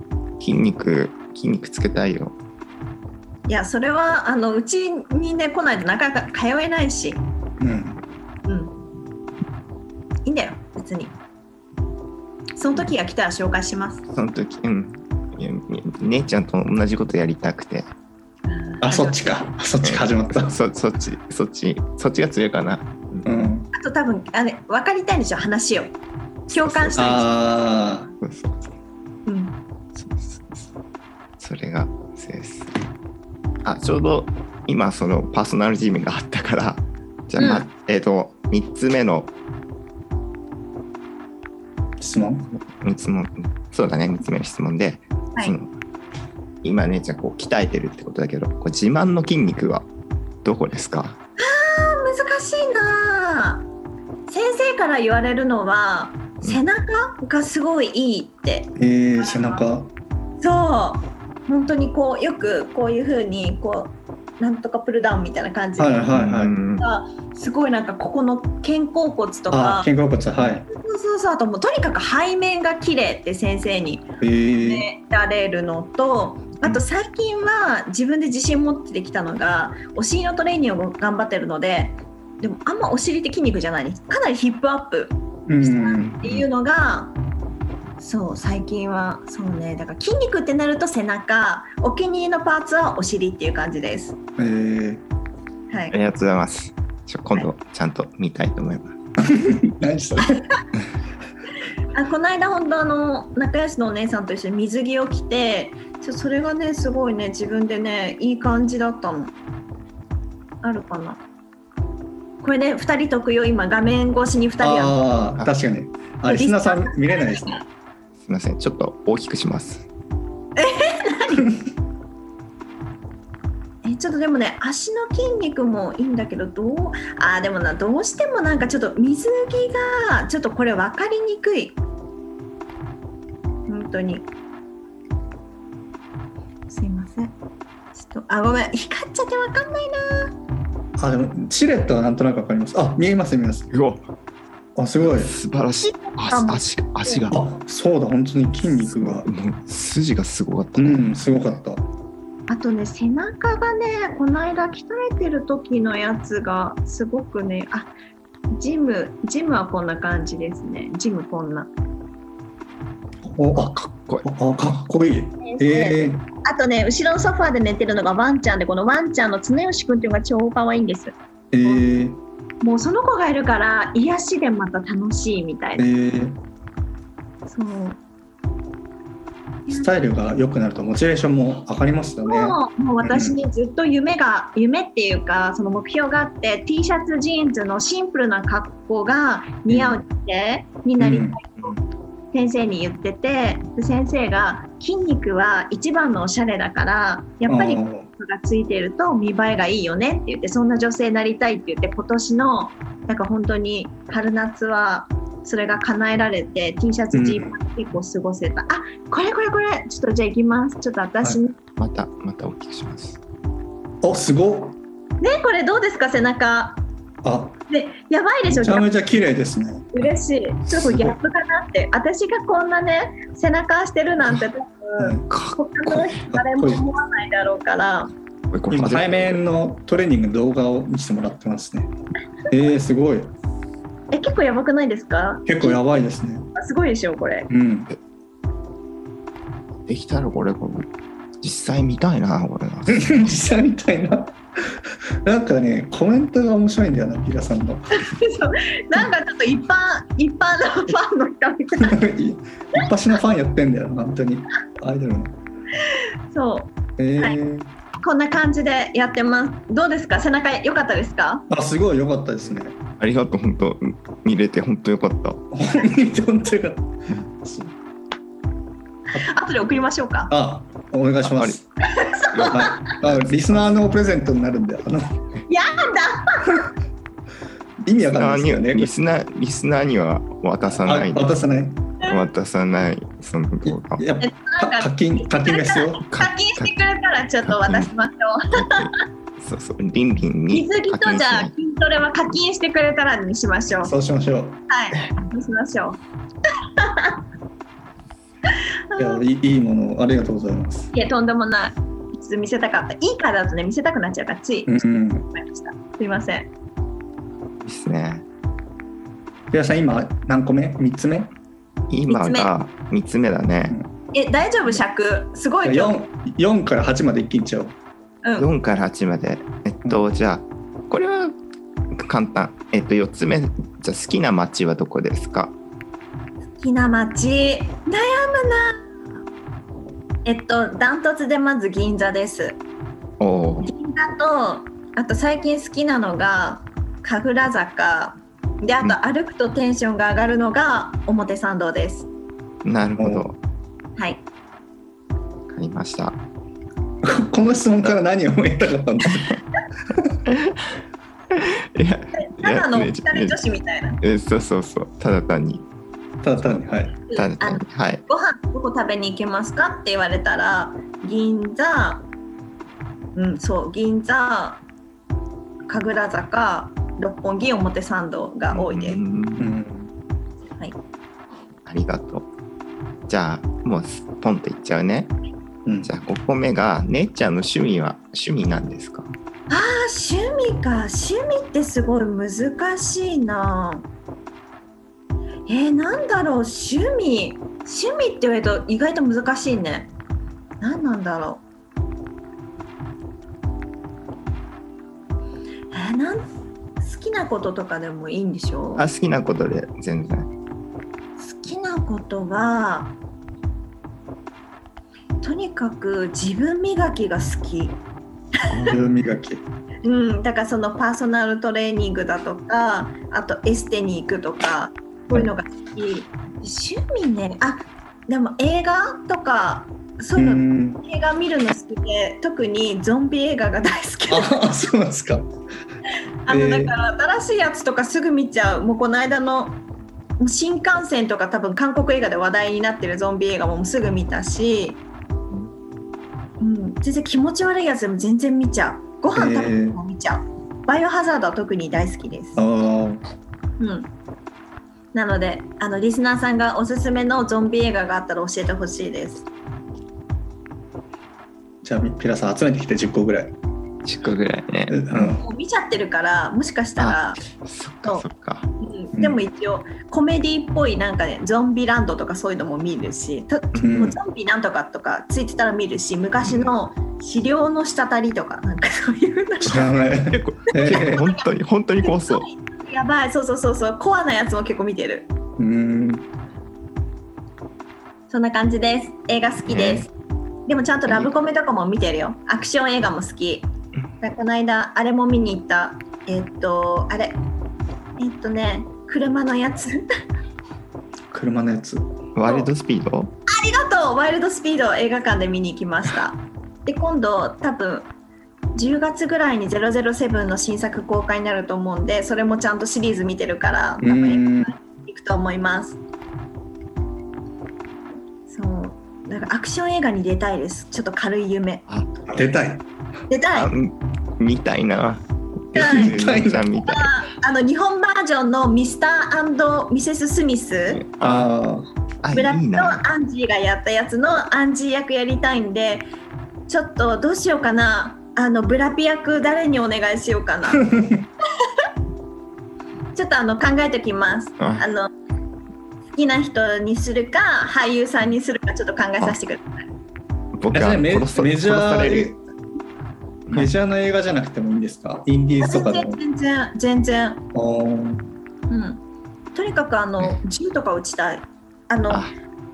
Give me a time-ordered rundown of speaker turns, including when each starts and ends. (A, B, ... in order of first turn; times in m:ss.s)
0:00.4-0:02.4 A
0:03.5-0:07.2 B
0:07.6-0:08.0 C
0:08.5-0:08.7 B
0:10.2-0:11.2 B
0:12.6-0:14.0 B
0:14.1-0:17.9 A
0:18.5-0:19.5 B
0:18.8-0:20.5 C
0:19.8-0:23.5 A
0:23.2-0:23.7 C
0:23.7-0:25.9 B
0:26.5-0:27.1 A
0:26.5-0:27.4 B
0:26.9-0:28.1 C
0:28.2-0:28.7 A
0:29.2-0:29.5 B
0:30.0-0:30.6 A
0:31.4-0:32.7 A
0:33.6-0:39.3 A
0:37.4-0:37.6 B
0:42.0-0:42.5 C
0:42.5-0:45.7 A
0:46.6-0:49.9 A
0:50.4-0:51.2 A
0:51.4-0:53.6 B
0:54.3-0:59.6 B
0:58.8-0:59.9 C
1:00.4-1:06.1 B
1:05.8-1:06.5 C
1:06.1-1:06.8 A
1:06.8-1:09.9 B
1:09.5-1:10.6 C
1:10.6-1:14.1 B
1:14.2-1:14.8 C
1:14.6-1:27.1 B
1:25.5-1:26.1 C
1:26.0-1:26.5 A
1:28.0-1:34.2 B
1:34.4-1:35.0 C
1:35.9-1:39.0 A
1:39.2-1:40.4 C
1:41.9-1:49.3 B
1:50.6-1:51.2 B
1:52.4-1:55.0 B
1:54.6-1:57.6 C
1:56.2-1:57.6 B
1:58.2-1:59.8 A
2:00.6-2:01.5 B
2:03.8-2:11.8 B
2:13.7-2:14.2 B
2:16.7-2:17.3 B
2:17.9-2:20.3 B
2:21.0-2:23.7 C
2:23.7-2:24.0 A
2:24.8-2:25.3 C
2:25.0-2:27.4 A
2:25.8-2:27.2 B
2:27.3-2:29.3 C
2:28.8-2:31.6 A
2:30.8-2:31.8 C
2:32.5-2:37.9 B
2:38.5-2:41.7 B
2:43.2-2:46.2 C
2:43.7-2:44.2 A
2:45.4-2:51.1 B
2:51.5-2:52.2 C
2:52.6-2:55.8 B
2:55.8-2:56.4 C
2:57.5-2:58.0 B
2:59.6-2:59.9 B
2:59.7-3:03.4 C
3:02.2-3:11.8 B
3:09.7-3:10.0 C
3:11.0-3:11.4 C
3:12.3-3:31.6 B
3:17.5-3:18.1 C
3:27.1-3:27.6 C
3:31.8-3:33.2 A
3:34.0-3:34.8 C
3:35.2-3:36.8 B
3:37.2-3:37.6 C
3:37.7-3:38.9 B
3:38.5-3:39.9 C
3:39.9-3:48.1 B
3:40.8-3:41.2 C
3:45.0-3:45.2 C
3:45.3-3:46.2 A
3:46.3-3:46.8 C
3:48.5-3:49.4 A
3:48.7-3:51.9 C
3:52.5-3:53.3 C
3:54.1-3:55.8 B
3:55.5-3:56.5 C
3:56.5-3:57.5 B
3:57.5-3:57.9 C
3:59.9-4:00.9 A
4:01.4-4:03.1 A
4:02.9-4:04.4 C
4:05.2-4:08.0 C
4:07.9-4:12.0 B
4:11.8-4:15.3 C
4:15.8-4:17.4 B
4:17.0-4:17.7 C
4:18.0-4:21.4 B
4:21.5-4:22.7 C
4:23.0-4:25.4 A
4:25.5-4:27.7 C
4:29.1-4:30.3 B
4:30.3-4:31.6 C
4:31.2-4:31.6 A
4:31.8-4:32.9 B
4:32.3-4:33.6 A
4:32.4-4:35.2 C
4:35.5-4:36.7 B
4:37.8-4:38.9 C
4:38.2-4:41.3 A
4:40.8-4:41.8 C
4:42.0-4:44.0 A
4:43.6-4:46.0 C
4:44.2-4:48.9 B
4:46.1-4:46.8 A
4:47.4-4:47.9 A
4:48.5-4:51.5 A
4:50.5-4:53.9 B
4:53.8-4:54.6 C
4:54.7-4:56.0 B
4:56.8-4:57.2 B
4:58.5-4:59.2 B
4:59.0-5:00.9 C
5:00.9-5:06.5 B
5:04.6-5:05.3 C
5:07.6-5:08.2 A
5:09.5-5:11.3 C
5:11.9-5:13.8 A
5:12.1-5:12.5 B
5:14.1-5:16.0 B
5:15.6-5:17.8 C
5:18.2-5:18.5 B
5:18.4-5:21.4 A
5:21.9-5:25.6 A
5:26.6-5:28.9 B
5:30.2-5:32.6 B
5:33.2-5:33.7 A
5:33.6-5:42.1 B
5:42.6-5:43.4 A
5:43.0-5:43.3 C
5:44.0-5:44.2 B
5:45.5-5:46.2 A
5:47.0-5:49.4 C
5:50.3-5:50.7 A
5:51.3-5:53.4 A
5:52.2-5:54.0 B
5:54.0-5:55.6 A
5:56.2-5:56.9 C
5:57.1-6:02.0 B
5:57.1-5:58.0 A
6:03.1-6:04.6 B
6:05.7-6:09.0 B
6:08.5-6:09.5 A
6:09.4-6:09.9 C
6:11.6-6:12.3 A
6:13.1-6:15.1 A
6:15.6-6:15.9 C
6:15.8-6:19.1 A
6:19.5-6:23.9 B
6:25.5-6:29.9 B
6:30.6-6:31.4 B
6:35.7-6:36.2 B
6:36.8-6:38.8 B
6:38.8-6:40.3 A
6:41.2-6:42.9 B
6:45.2-6:47.8 B
6:48.5-6:48.8 A
6:48.6-6:49.4 C
6:49.8-7:04.6 B
7:00.2-7:00.8 C
7:04.1-7:05.3 C
7:06.2-7:09.6 B
7:06.3-7:06.7 C
7:10.2-7:14.8 B
7:16.4-7:22.4 B
7:19.1-7:19.8 C
7:22.4-7:23.0 C
7:23.6-7:23.9 B
7:24.9-7:29.2 B
7:31.6-7:33.3 C
7:33.8-7:34.8 A
7:34.7-7:35.2 C
7:35.1-7:37.2 B
7:36.8-7:38.5 A
7:38.6-7:49.8 B
7:43.6-7:44.0 C
7:49.4-7:51.1 C
7:50.1-7:52.3 A
7:50.6-7:51.2 B
7:51.8-7:55.1 B
7:55.4-7:56.0 C
7:58.1-7:59.9 B
7:59.5-7:59.9 A
8:00.5-8:03.5 B
8:04.0-8:07.2 B
8:08.0-8:09.9 B
8:11.1-8:11.9 C
8:12.1-8:13.1 A
8:13.3-8:17.9 B
8:18.5-8:25.8 B
8:23.8-8:24.5 C
8:28.3-8:31.6 B
8:32.1-8:32.6 C
8:33.1-8:33.5 B
8:33.3-8:37.0 A
8:35.5-8:36.5 C
8:35.6-8:36.0 B
8:36.6-8:40.8 B
8:40.7-8:41.3 A
8:41.0-8:41.7 C
8:42.0-8:42.8 A
8:42.1-8:45.8 B
8:46.5-8:50.7 B
8:50.6-8:51.0 C
8:52.9-8:54.9 B
8:56.0-8:59.6 B
9:00.3-9:02.2 A
9:00.5-9:02.2 C
9:03.3-9:03.5 A
9:03.3-9:06.0 C
9:05.4-9:07.2 B
9:07.3-9:08.0 C
9:08.5-9:08.8 B
9:09.3-9:12.1 B
9:11.9-9:12.1 A